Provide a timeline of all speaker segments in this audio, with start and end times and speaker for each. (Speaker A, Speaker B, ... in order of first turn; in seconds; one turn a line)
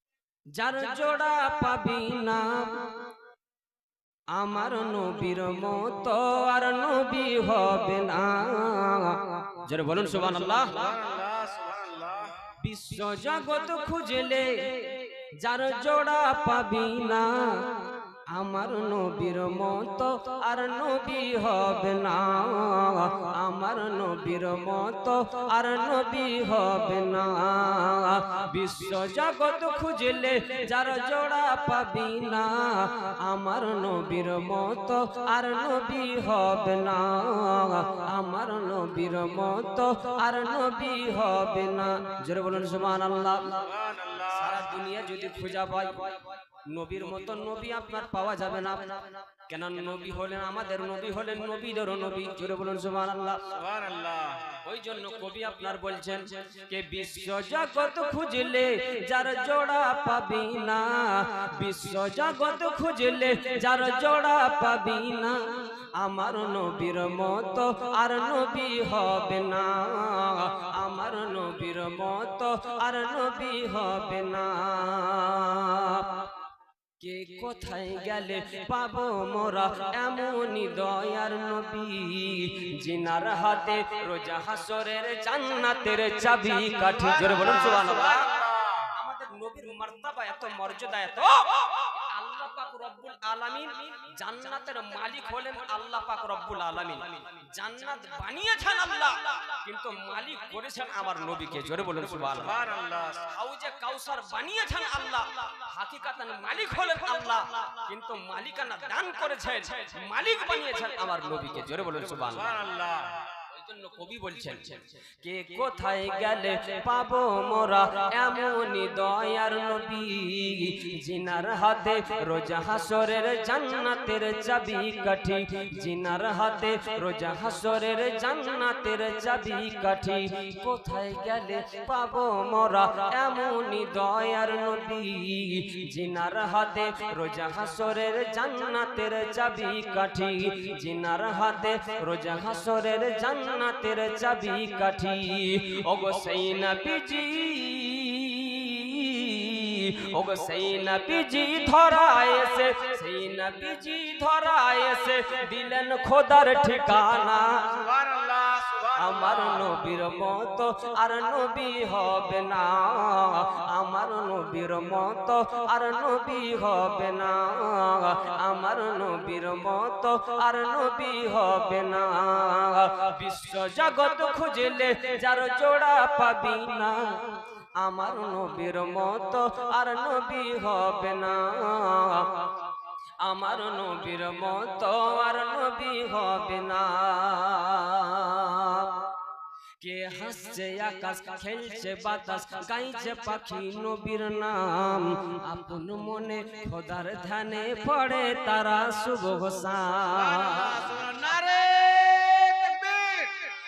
Speaker A: 0.6-3.1
Speaker A: 4.3-10.9
Speaker B: 10.7-12.4
Speaker A: 12.6-43.7
Speaker B: 43.6-44.5
Speaker A: 44.3-53.6
Speaker B: 53.6-54.6
Speaker A: 54.6-76.3
Speaker A: 77.0-102.7
Speaker B: 88.2-88.8
Speaker B: 102.5-103.3
Speaker A: 103.2-112.6
Speaker B: 112.4-113.3
Speaker A: 113.5-157.9
Speaker B: 157.8-159.2
Speaker A: 158.9-189.1
Speaker A: 189.8-200.9
Speaker B: 200.1-203.5